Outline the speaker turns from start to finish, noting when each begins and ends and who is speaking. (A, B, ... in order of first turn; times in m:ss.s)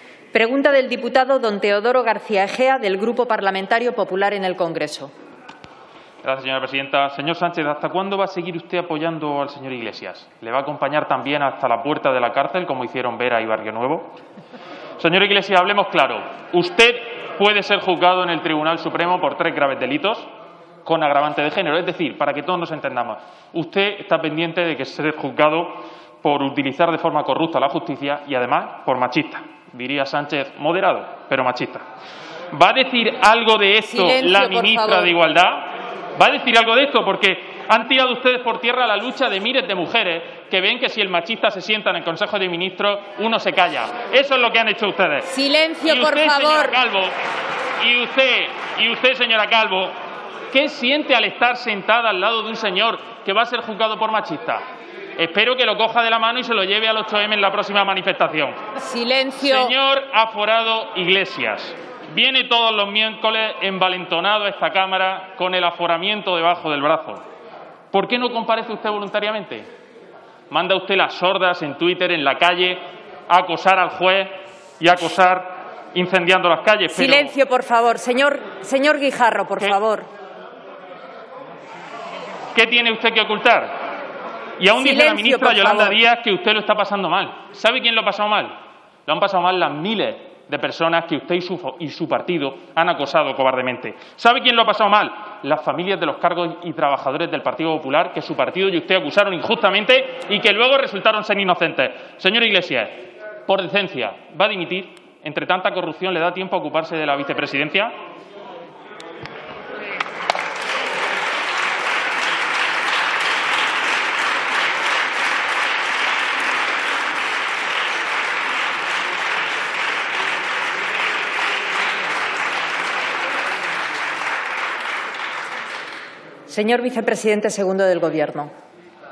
0:00.3-0:05.1 A
0:06.2-0:14.2 B
0:15.0-0:20.3 B
0:20.8-0:31.8 B
0:32.5-0:45.3 B
0:33.9-0:35.1 A
0:45.3-0:46.8 A
0:45.8-0:47.1 B
0:47.8-0:50.0 B
0:50.5-0:54.6 B
0:55.2-0:58.6 B
0:58.8-0:59.7 A
0:59.4-1:07.2 B
1:07.9-1:09.7 B
1:10.5-1:17.3 B
1:16.9-1:20.1 A
1:22.5-1:23.7 B
1:24.6-1:47.9 B
1:24.7-1:26.0 A
2:06.5-2:08.5 A